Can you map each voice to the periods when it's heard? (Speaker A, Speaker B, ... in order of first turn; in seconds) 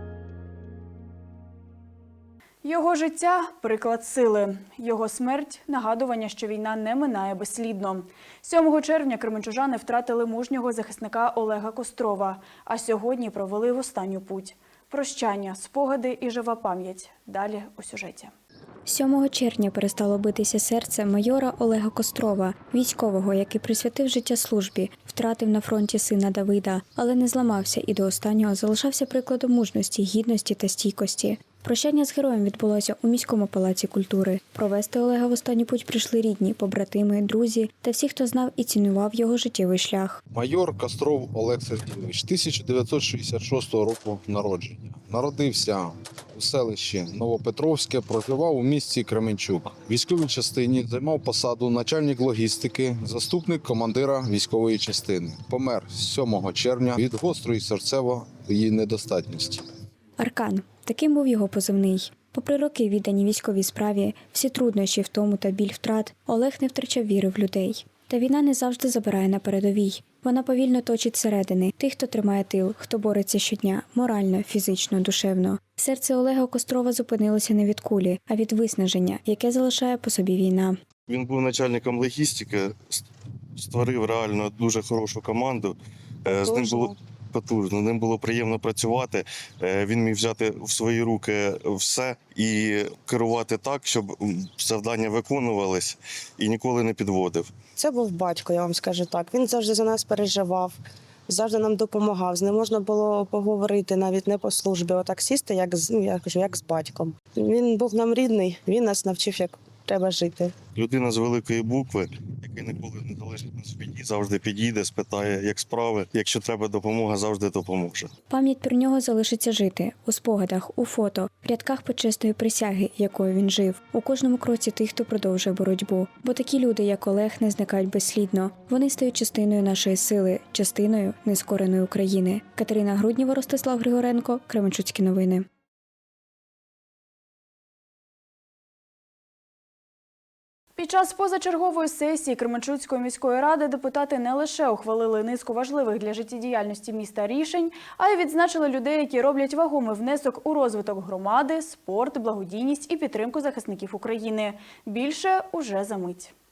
Speaker A: 2.6-18.3, 140.8-156.3
Speaker B: 18.8-40.2, 60.2-80.8, 118.3-135.4
Speaker C: 40.3-59.6
Speaker D: 81.1-83.0, 83.5-97.5, 110.7-118.1
Speaker E: 86.3-86.9, 97.8-100.8, 101.3-110.5